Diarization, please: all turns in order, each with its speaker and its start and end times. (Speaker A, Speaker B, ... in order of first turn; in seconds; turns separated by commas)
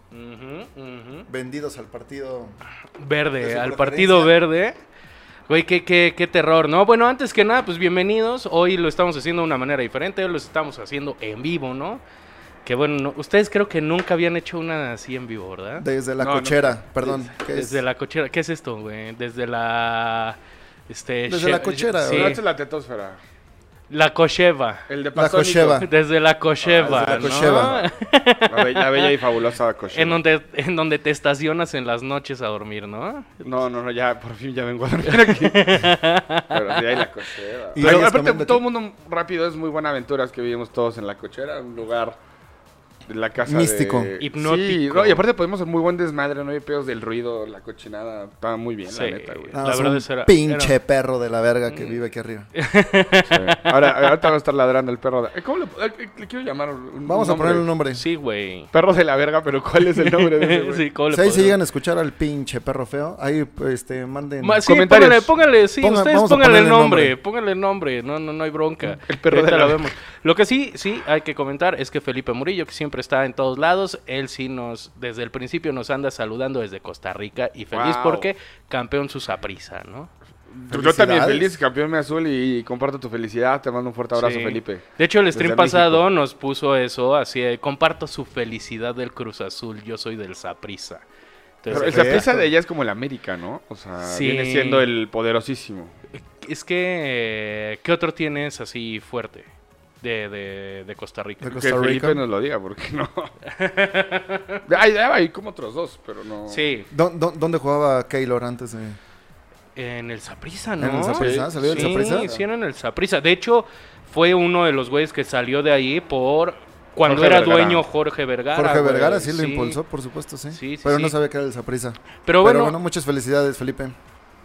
Speaker A: 0.1-1.3, Speaker B: 1.3-2.6, Speaker A: 3.0-4.8, Speaker B: 3.4-4.3, Speaker A: 5.5-12.0, Speaker A: 12.6-15.9, Speaker B: 15.8-17.8, Speaker C: 16.2-17.2, Speaker A: 17.4-20.4, Speaker A: 20.9-22.4, Speaker B: 21.3-22.4, Speaker C: 22.1-23.2, Speaker A: 23.9-24.8, Speaker C: 24.9-25.9, Speaker B: 25.1-25.9, Speaker A: 25.8-29.1, Speaker C: 26.6-27.8, Speaker B: 26.8-27.9, Speaker C: 28.5-30.2, Speaker A: 29.9-33.3, Speaker C: 33.4-35.9, Speaker A: 35.2-37.0, Speaker C: 36.5-42.2, Speaker B: 37.8-38.6, Speaker C: 43.1-49.6, Speaker B: 43.4-44.1, Speaker A: 44.2-45.2, Speaker A: 48.9-50.8, Speaker B: 49.5-52.5, Speaker A: 51.7-52.0, Speaker A: 52.5-54.3, Speaker C: 53.3-57.7, Speaker B: 57.1-58.0, Speaker A: 58.0-58.7, Speaker C: 58.7-60.9, Speaker A: 59.9-61.6, Speaker B: 61.1-64.6, Speaker A: 64.4-80.1, Speaker C: 64.7-65.3, Speaker B: 65.8-67.1, Speaker C: 69.0-69.9, Speaker C: 77.7-78.3, Speaker C: 80.5-86.0, Speaker B: 80.7-81.5, Speaker A: 84.2-91.0, Speaker A: 91.6-92.3, Speaker B: 91.7-92.5, Speaker C: 91.7-95.9, Speaker A: 94.0-94.8, Speaker A: 96.3-99.5, Speaker A: 100.0-101.6, Speaker B: 101.4-102.2, Speaker C: 101.5-103.3, Speaker A: 103.4-104.6, Speaker C: 104.7-106.6, Speaker A: 106.5-106.9, Speaker B: 106.9-109.0, Speaker A: 109.8-119.8, Speaker B: 110.8-112.3, Speaker C: 111.2-112.4, Speaker C: 117.0-117.8, Speaker B: 118.5-124.0, Speaker A: 120.5-121.2, Speaker A: 122.3-122.8